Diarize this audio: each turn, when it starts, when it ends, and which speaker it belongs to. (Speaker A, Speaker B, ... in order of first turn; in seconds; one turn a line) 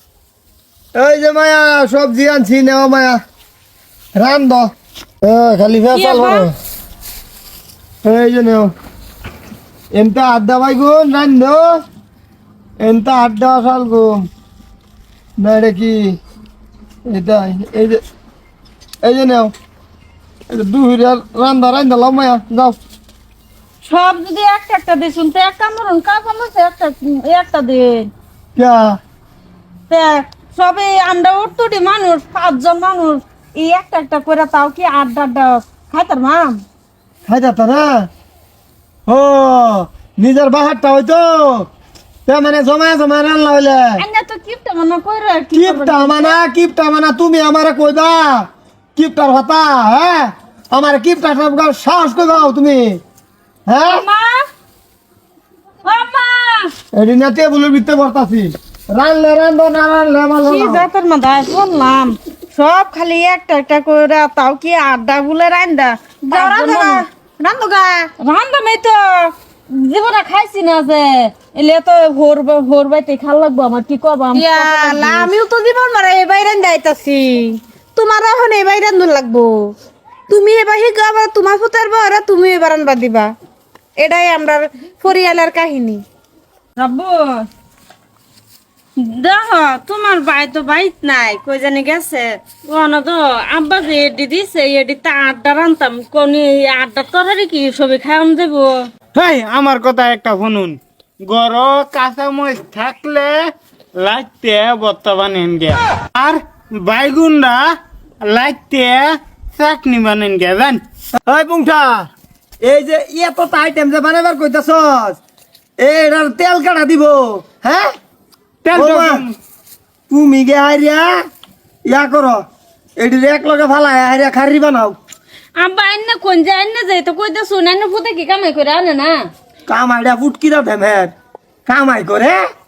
Speaker A: 1.0-3.2
Speaker A: 4.2-4.7
Speaker A: 5.2-6.5
Speaker B: 5.9-6.5
Speaker A: 8.0-8.7
Speaker A: 9.9-11.8
Speaker A: 12.8-14.3
Speaker A: 15.4-16.2
Speaker A: 17.1-18.0
Speaker A: 19.0-19.5
Speaker A: 20.5-22.8
Speaker B: 23.8-28.1
Speaker A: 28.6-29.0
Speaker B: 29.9-36.6
Speaker A: 37.3-38.1
Speaker A: 39.1-41.7
Speaker A: 42.3-44.0
Speaker B: 44.0-46.4
Speaker A: 45.5-53.0
Speaker A: 53.7-54.0
Speaker B: 53.9-54.4
Speaker B: 55.9-56.7
Speaker A: 56.9-60.9
Speaker B: 60.5-67.0
Speaker C: 66.2-68.1
Speaker B: 68.2-75.3
Speaker C: 74.3-79.7
Speaker C: 80.3-83.3
Speaker C: 84.0-86.0
Speaker B: 86.8-87.5
Speaker B: 89.0-98.8
Speaker D: 99.1-103.4
Speaker D: 104.0-107.7
Speaker D: 108.2-110.8
Speaker A: 111.3-112.1
Speaker A: 112.6-115.2
Speaker A: 115.8-117.9
Speaker D: 118.7-119.2
Speaker A: 118.7-119.2
Speaker A: 120.1-121.1
Speaker A: 121.9-122.4
Speaker A: 123.0-125.0
Speaker B: 125.6-129.3
Speaker A: 129.7-131.1
Speaker A: 131.7-132.4